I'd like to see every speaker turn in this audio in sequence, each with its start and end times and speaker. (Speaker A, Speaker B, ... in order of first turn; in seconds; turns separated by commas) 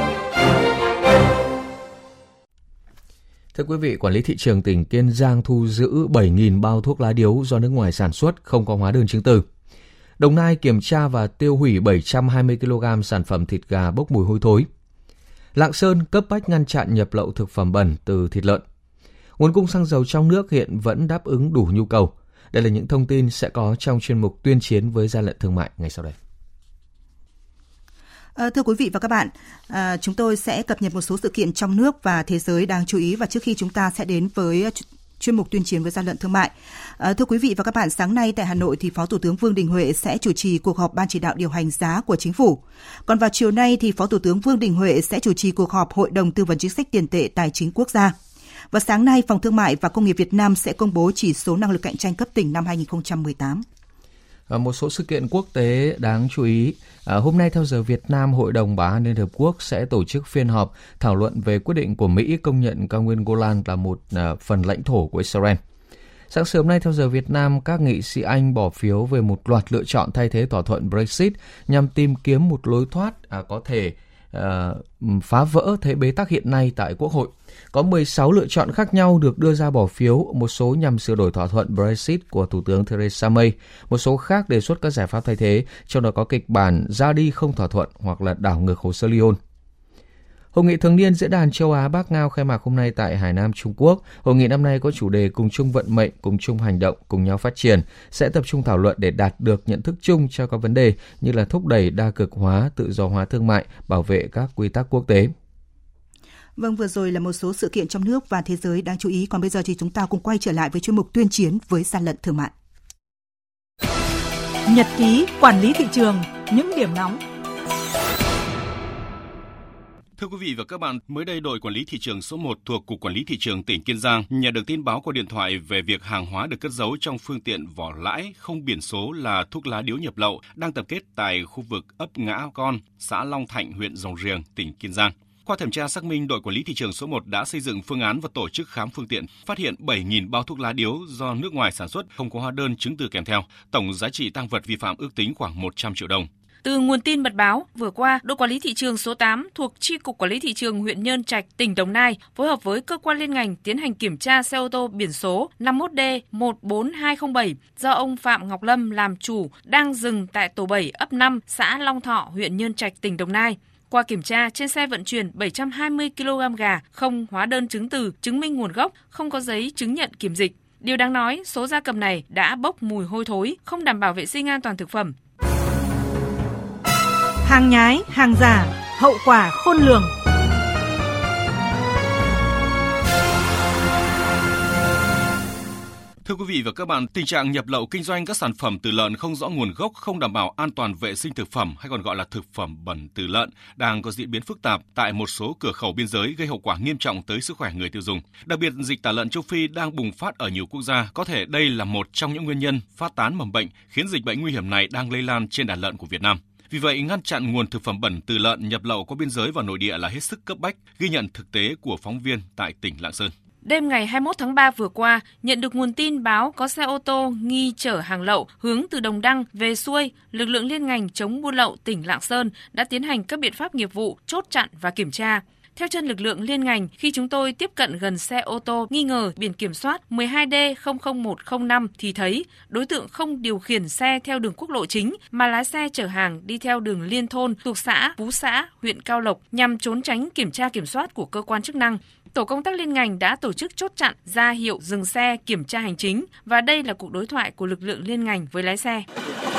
Speaker A: 3.5-9.4, Speaker A: 10.2-14.7, Speaker A: 15.5-18.6, Speaker A: 19.4-26.1, Speaker B: 28.4-48.1, Speaker B: 48.7-53.6, Speaker A: 54.5-65.6, Speaker A: 66.3-89.4, Speaker A: 90.5-105.3, Speaker B: 106.6-112.5, Speaker C: 114.7-117.2, Speaker D: 120.2-146.3, Speaker E: 146.6-175.1, Speaker C: 177.4-180.1, Speaker D: 186.2-213.3, Speaker E: 213.6-249.1